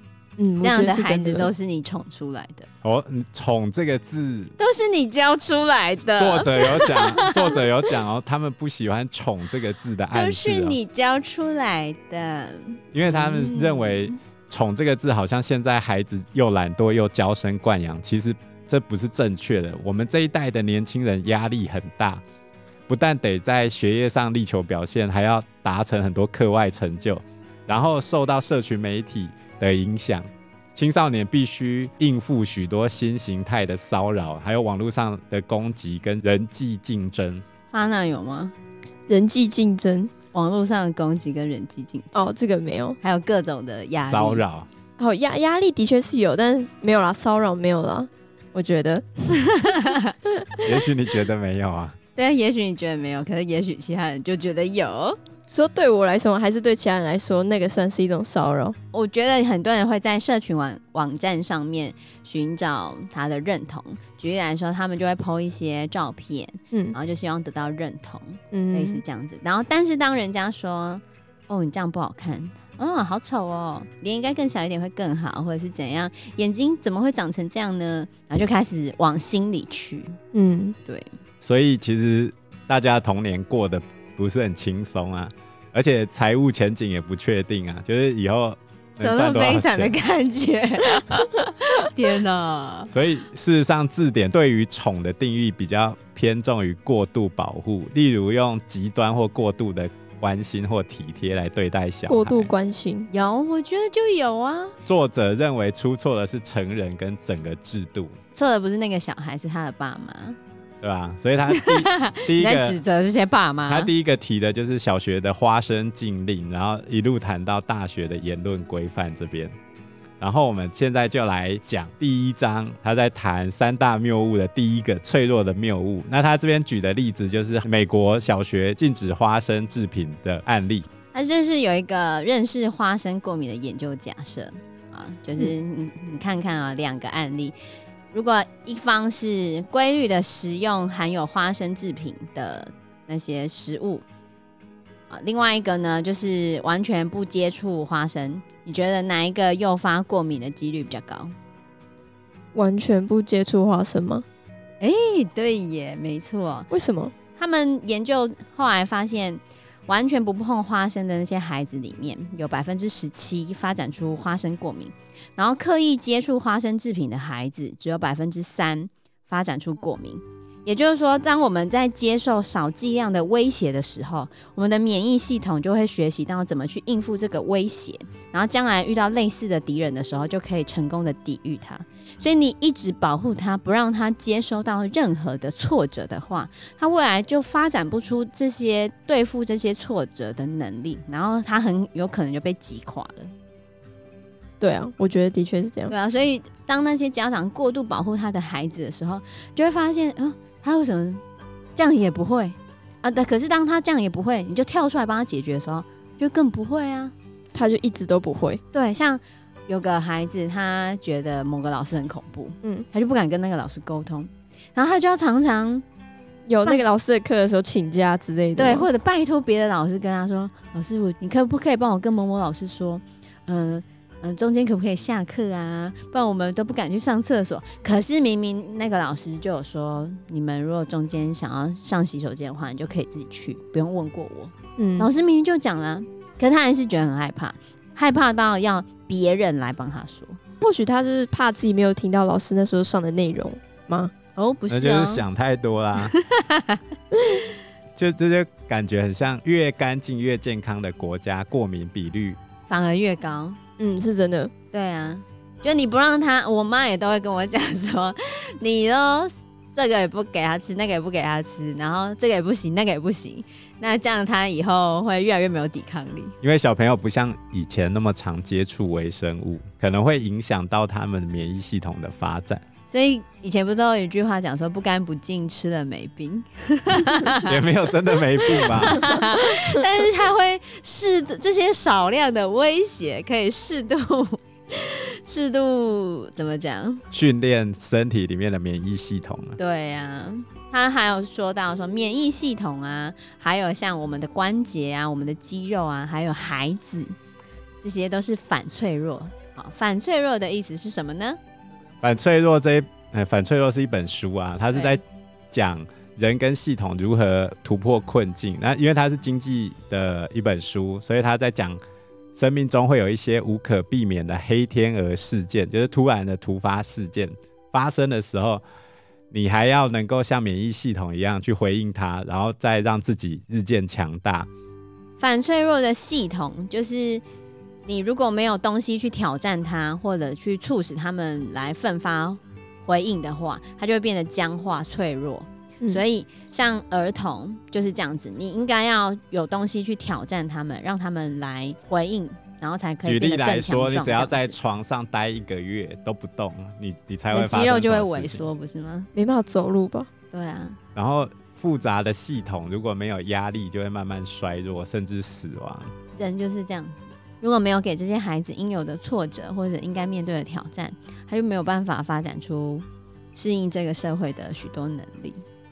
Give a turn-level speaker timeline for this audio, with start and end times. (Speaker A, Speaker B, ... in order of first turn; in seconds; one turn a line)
Speaker A: 0.4-1.5
Speaker B: 0.6-2.7
Speaker C: 2.8-4.5
Speaker B: 4.6-7.9
Speaker C: 6.1-10.8
Speaker B: 10.1-14.2
Speaker C: 12.9-22.2
Speaker C: 22.9-37.4
Speaker B: 37.7-38.5
Speaker A: 39.1-40.1
Speaker B: 40.3-42.3
Speaker A: 42.1-43.0
Speaker B: 43.0-44.4
Speaker C: 44.0-44.7
Speaker A: 45.0-49.4
Speaker B: 49.4-50.1
Speaker C: 50.6-52.0
Speaker B: 52.1-55.2
Speaker A: 55.5-58.8
Speaker B: 58.9-80.2
Speaker A: 68.5-69.0
Speaker A: 80.3-80.8
Speaker C: 81.4-89.9
Speaker B: 89.0-92.9
Speaker C: 92.9-102.5
Speaker A: 102.1-103.1
Speaker B: 103.1-104.8
Speaker C: 104.9-108.1
Speaker B: 108.3-110.4
Speaker C: 110.8-112.8
Speaker B: 111.5-113.9
Speaker C: 113.7-119.5
Speaker C: 120.2-130.9
Speaker B: 131.1-137.6
Speaker B: 138.1-144.1
Speaker B: 145.1-151.3
Speaker A: 152.5-154.2
Speaker B: 154.8-156.7
Speaker A: 156.7-157.1
Speaker B: 157.4-193.3
Speaker A: 194.6-195.9
Speaker B: 195.9-201.2
Speaker B: 201.8-207.1
Speaker A: 207.5-208.6
Speaker B: 208.7-215.8
Speaker A: 216.5-218.9
Speaker B: 218.6-240.4
Speaker A: 234.8-235.1
Speaker A: 240.6-244.1
Speaker B: 244.4-245.2
Speaker C: 244.7-246.1
Speaker B: 246.0-246.8
Speaker C: 247.9-252.4
Speaker B: 252.7-253.6
Speaker A: 253.8-254.5
Speaker B: 254.7-266.4
Speaker C: 266.4-272.6
Speaker B: 272.9-277.6
Speaker C: 277.4-279.1
Speaker B: 278.4-287.0
Speaker C: 287.1-289.6
Speaker B: 289.6-297.1
Speaker B: 297.8-301.4
Speaker C: 302.0-311.8
Speaker B: 304.7-305.0
Speaker C: 312.3-318.6
Speaker C: 319.3-324.5
Speaker B: 325.2-327.2
Speaker B: 327.9-344.6
Speaker C: 343.1-348.4
Speaker B: 347.3-349.1
Speaker A: 349.1-350.1
Speaker B: 350.3-350.8
Speaker C: 350.9-355.9
Speaker B: 356.1-365.4